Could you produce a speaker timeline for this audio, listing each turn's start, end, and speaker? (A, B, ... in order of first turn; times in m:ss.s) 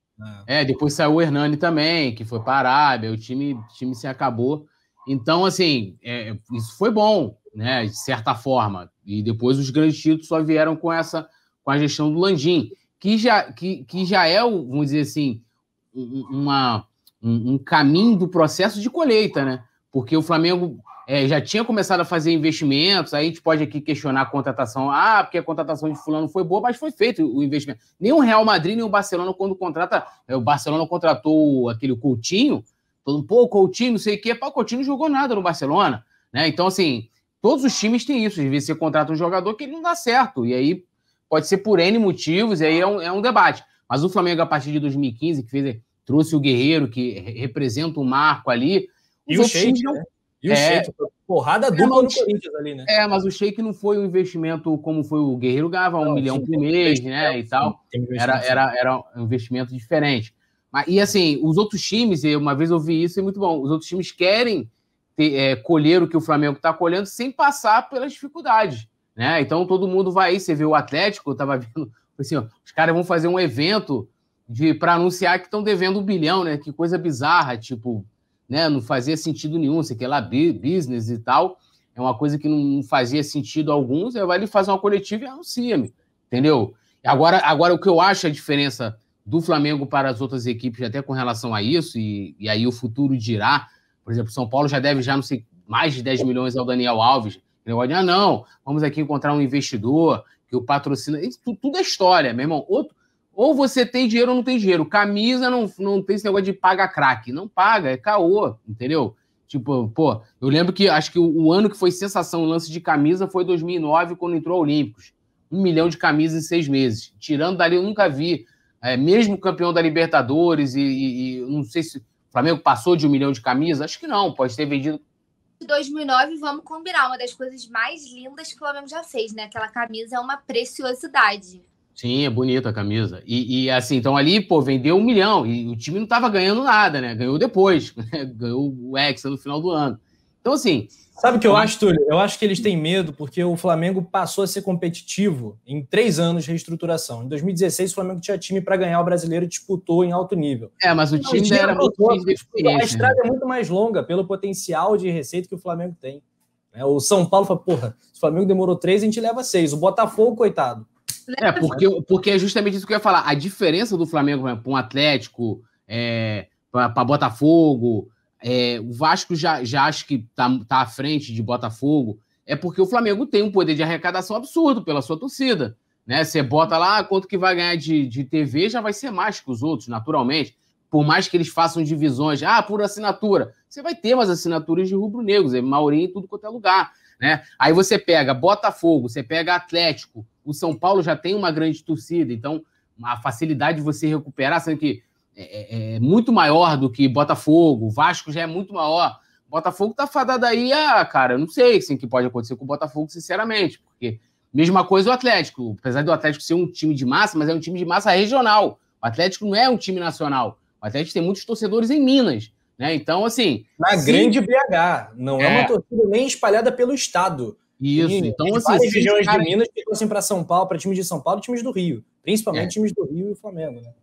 0:00.2-0:00.4 A
0:00.5-0:50.9 B
0:49.3-0:52.9 A
0:51.7-0:52.2 B
0:52.9-2:05.0 B
0:56.0-0:58.6 A
2:05.6-2:11.6 C
2:12.0-2:20.9 B
2:21.2-2:40.9 A
2:30.8-2:33.2 B
2:41.3-2:41.8 C
2:41.4-3:34.4 B
3:33.8-3:43.9 A
3:35.4-3:35.7 B
3:37.8-3:39.5 B